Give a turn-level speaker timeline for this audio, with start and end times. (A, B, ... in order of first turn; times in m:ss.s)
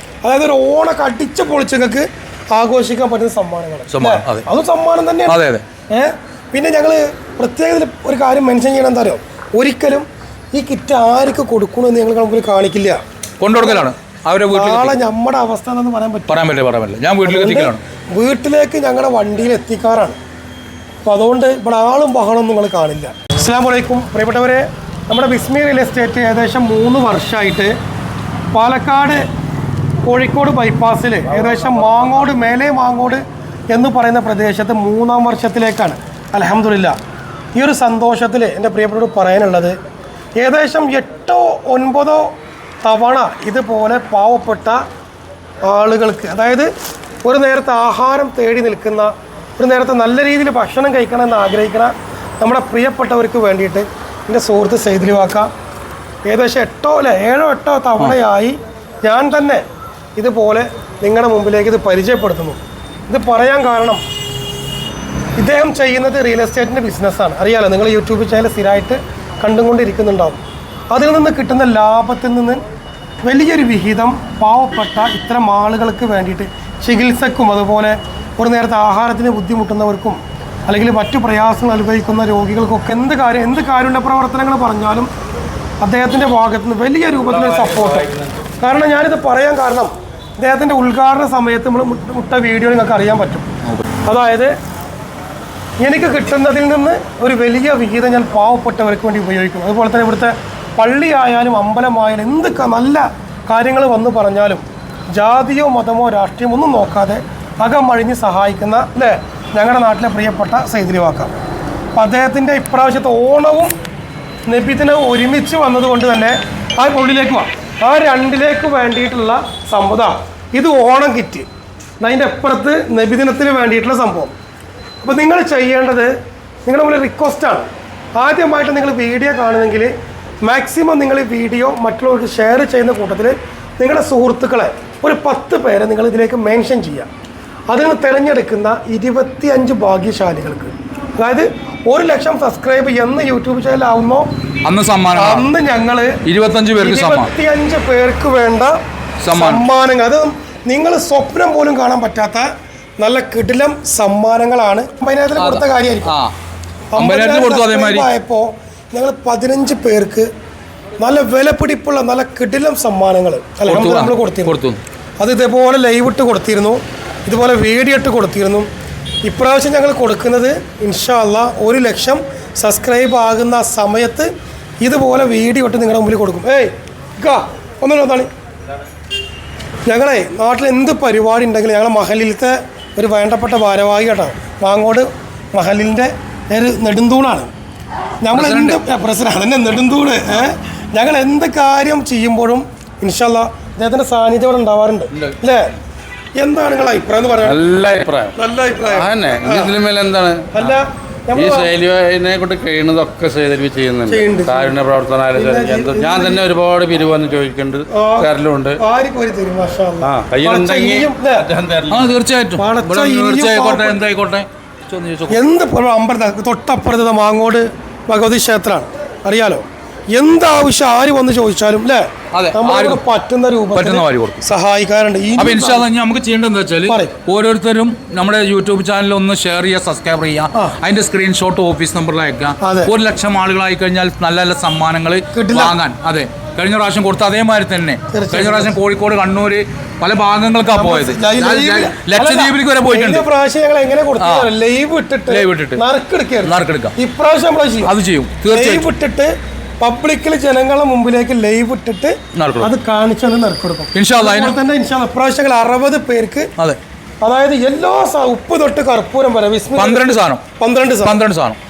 0:00.2-0:05.4 A
0:03.9-0:04.4 B
0:05.3-0:05.6 B
0:05.9-0:13.0 A
0:13.4-0:15.0 B
0:13.6-0:13.9 A
0:14.5-0:16.4 A
0:16.3-0:17.8 B
0:17.2-0:20.2 A
0:21.0-0:27.7 A
0:28.5-0:29.2 A
0:30.0-0:37.0 A
0:37.5-0:39.8 A
0:40.4-0:44.8 A
0:45.6-0:46.7 A
0:47.2-0:55.5 A
0:56.2-0:59.6 A
1:00.2-1:04.0 A
1:05.4-1:12.6 A
1:13.2-1:25.1 A
1:25.8-1:28.1 A
1:27.2-1:28.3 C
1:28.6-1:33.5 A
1:34.0-1:34.5 A
1:35.8-1:51.3 A
1:51.9-1:53.7 A
1:54.5-2:01.4 A
2:02.0-2:04.3 A
2:05.0-2:06.1 A
2:06.6-2:17.1 A
2:17.7-2:24.3 A
2:24.6-2:25.5 B
2:25.1-2:26.2 A
2:26.2-2:27.3 B
2:26.8-2:28.8 A
2:29.2-2:29.7 B
2:29.3-2:32.4 A
2:33.0-2:36.1 A
2:35.4-2:36.3 B
2:36.9-2:40.3 A
2:37.0-2:38.1 B
2:41.0-2:44.6 A
2:43.6-2:44.8 B
2:45.2-2:48.7 A
2:49.2-2:54.3 A
2:54.8-2:58.3 A
2:59.8-3:07.5 A
3:08.2-3:15.7 A
3:08.3-3:08.8 B
3:16.4-3:17.6 A
3:17.4-3:20.7 C
3:18.3-3:19.7 A
3:20.5-3:21.7 A
3:21.3-3:28.8 C
3:24.1-3:24.8 A
3:25.3-3:26.4 A
3:27.9-3:31.5 A
3:30.0-3:32.1 C
3:31.9-3:35.4 B
3:32.6-3:34.0 A
3:35.3-3:45.9 A
3:42.3-3:43.0 B
3:43.7-3:44.4 B
3:45.4-4:03.3 B
3:46.9-3:47.2 A
3:52.6-3:52.9 A
3:55.3-3:55.8 A
3:58.1-3:58.8 A
4:00.7-4:07.9 A
4:04.2-4:04.5 B
4:05.3-4:05.8 B
4:06.4-4:06.9 B
4:07.8-4:08.9 B
4:08.5-4:16.5 A
4:12.3-4:12.7 B
4:13.9-4:14.6 B
4:17.2-4:21.2 A
4:19.7-4:20.4 B
4:21.0-4:21.6 B